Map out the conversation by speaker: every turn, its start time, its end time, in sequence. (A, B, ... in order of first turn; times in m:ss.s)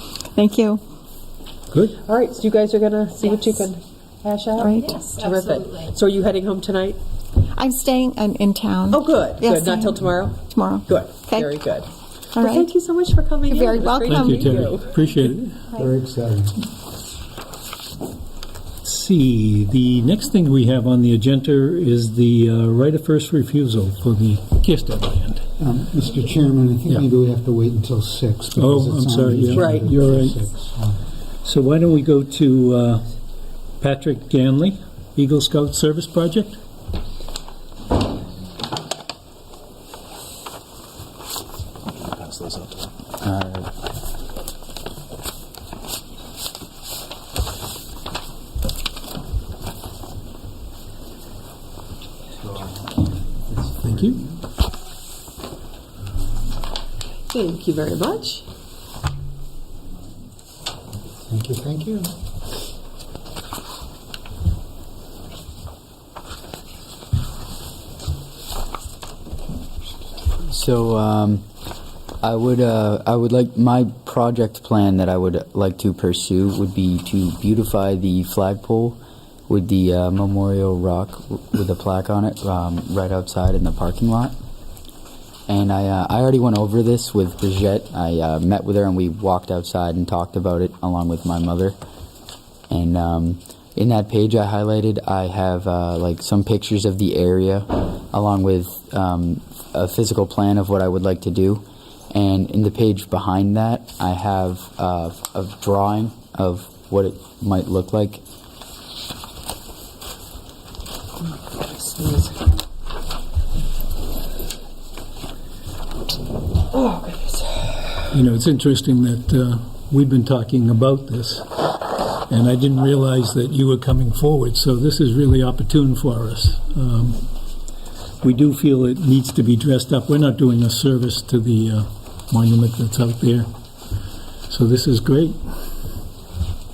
0:00.3-0:00.8 A
0:01.7-0:02.0 B
0:02.0-0:07.0 C
0:04.6-0:05.1 A
0:07.5-0:11.6 A
0:08.9-0:14.9 C
0:12.3-0:12.7 A
0:13.5-0:14.5 A
0:14.1-0:15.7 B
0:15.7-0:16.6 D
0:18.8-0:25.5 B
0:25.6-0:31.0 D
0:28.5-0:30.4 B
0:29.5-0:29.9 C
0:31.4-0:33.1 B
0:33.8-0:36.6 B
0:43.2-0:43.7 E
0:53.6-0:54.2 D
0:53.8-0:54.2 B
0:57.3-0:58.4 C
1:01.3-1:02.1 D
1:10.4-1:11.4 E
1:12.2-1:24.4 E
1:25.5-1:31.8 E
1:32.7-1:48.2 E
1:51.4-1:52.4 C
1:56.7-1:57.9 C
1:58.1-2:01.7 B
2:02.3-2:07.2 B
2:08.2-2:13.5 B
2:14.5-2:15.4 B